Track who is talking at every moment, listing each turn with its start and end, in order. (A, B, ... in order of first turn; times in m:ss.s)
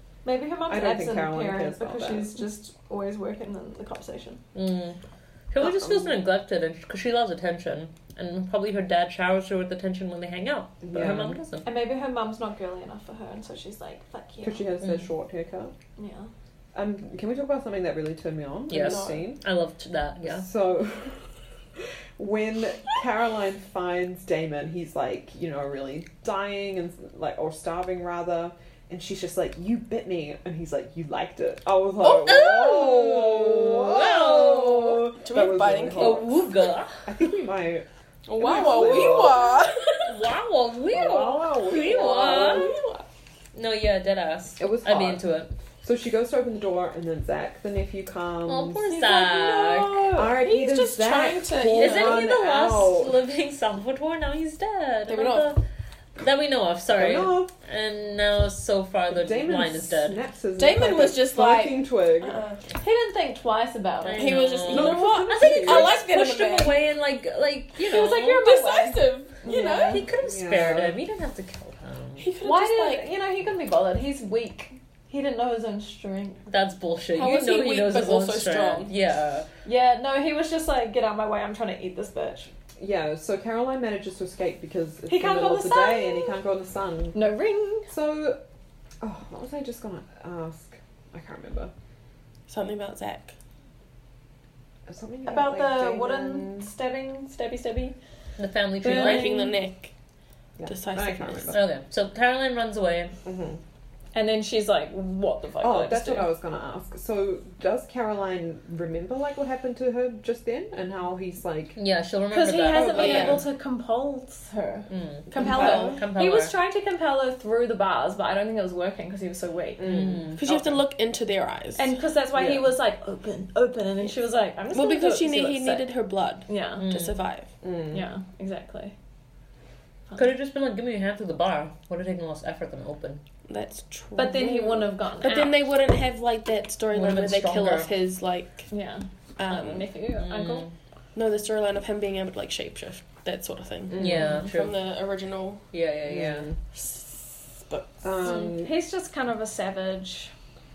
0:00.2-0:04.4 A
0:00.7-0:02.4 B
0:04.5-0:05.0 C
0:05.5-0:11.7 C
0:05.6-0:06.1 B
0:10.8-0:11.4 B
0:11.6-0:14.7 A
0:14.4-0:15.7 B
0:16.0-0:16.3 A
0:16.7-0:19.4 B
0:18.7-0:20.5 C
0:18.8-0:19.2 D
0:20.2-0:21.2 B
0:21.8-0:36.4 B
0:32.0-0:36.4 D
0:33.3-0:35.1 C
0:35.9-0:37.0 C
0:37.0-0:39.7 B
0:38.3-0:40.3 D
0:38.8-0:39.4 C
0:40.0-0:42.7 C
0:40.9-0:42.8 B
0:41.7-0:43.0 D
0:43.5-0:45.5 C
0:44.6-0:45.2 B
0:45.8-0:48.9 B
0:48.4-0:50.1 C
0:48.9-0:52.3 D
0:50.1-0:53.2 B
0:51.7-0:55.6 C
0:55.1-0:55.5 D
0:56.2-1:00.2 C
0:56.9-0:57.5 B
0:59.1-1:02.4 B
1:00.6-1:02.6 D
1:02.8-1:04.3 A
1:04.0-1:08.4 C
1:04.1-1:06.8 D
1:04.6-1:06.0 B
1:07.8-1:10.1 A
1:07.9-1:10.0 D
1:09.8-1:12.3 C
1:10.2-1:11.0 B
1:12.2-1:13.1 D
1:12.4-1:16.4 A
1:16.5-1:19.5 C
1:17.1-1:18.9 D
1:19.6-1:22.5 A
1:22.8-1:27.3 B
1:25.1-1:26.4 A
1:27.1-1:27.9 A
1:27.9-1:28.4 B
1:29.0-1:31.7 B
1:32.5-1:33.3 D
1:34.9-1:36.7 B
1:35.3-1:38.0 A
1:38.4-1:39.5 C
1:38.8-1:39.6 A
1:38.8-1:39.9 D
1:40.6-1:41.6 B
1:40.6-1:41.6 D
1:41.5-1:43.1 C
1:43.2-1:43.6 B
1:44.1-1:46.3 A
1:45.6-1:51.8 B
1:51.8-1:53.4 C
1:52.3-2:00.1 A
1:52.7-1:53.4 B
1:52.9-1:53.4 D
1:54.9-1:56.5 C
1:55.3-1:56.0 D
1:55.4-1:56.0 B
1:59.8-2:00.4 B
1:59.8-2:00.6 C
2:00.4-2:01.9 D
2:01.8-2:05.9 A
2:02.4-2:02.7 B
2:04.7-2:07.5 D
2:06.5-2:06.9 A
2:06.8-2:07.2 C
2:07.6-2:08.0 B
2:07.9-2:09.0 A
2:10.1-2:13.2 C
2:13.5-2:18.7 D
2:14.2-2:15.6 A
2:16.9-2:17.9 C
2:18.7-2:20.7 A
2:19.4-2:19.8 D
2:20.1-2:20.7 C
2:21.1-2:25.6 D
2:23.9-2:24.4 B
2:23.9-2:24.9 C
2:25.7-2:26.5 C
2:26.0-2:26.6 B
2:26.7-2:28.0 D
2:28.0-2:28.8 B
2:28.2-2:30.3 A